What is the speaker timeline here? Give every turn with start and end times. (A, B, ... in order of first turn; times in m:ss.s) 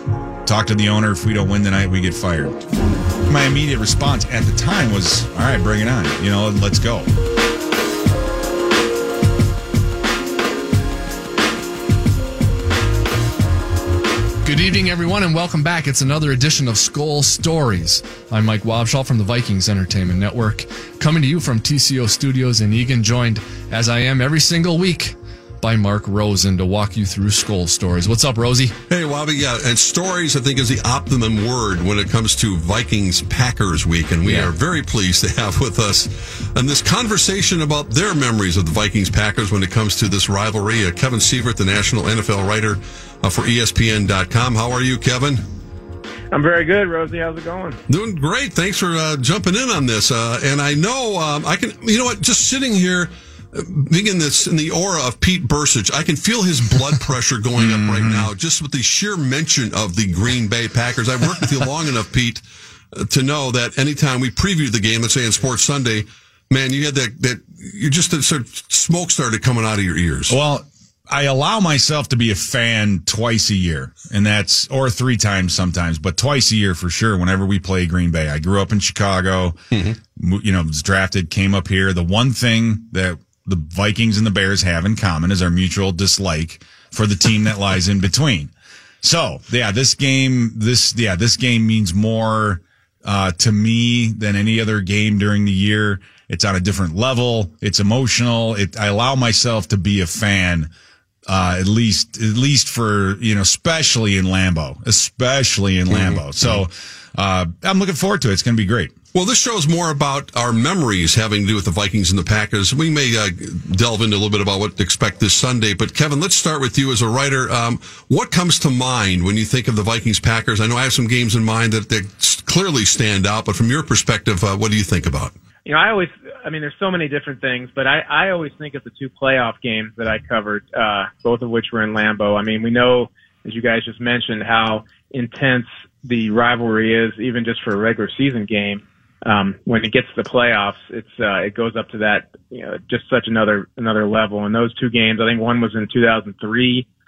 0:00.4-0:02.7 A
0:03.2-0:07.1 A
0:14.4-0:28.8 B
0:28.9-0:45.4 C
0:34.2-0:34.5 B
0:46.3-0:47.8 D
0:47.9-1:10.4 C
0:57.6-0:58.3 A
1:10.3-1:19.6 A
1:19.7-1:20.0 C
1:20.2-1:40.7 A
1:41.3-1:48.9 A
1:45.9-1:46.6 C
1:49.1-2:05.3 C
2:05.6-2:26.8 D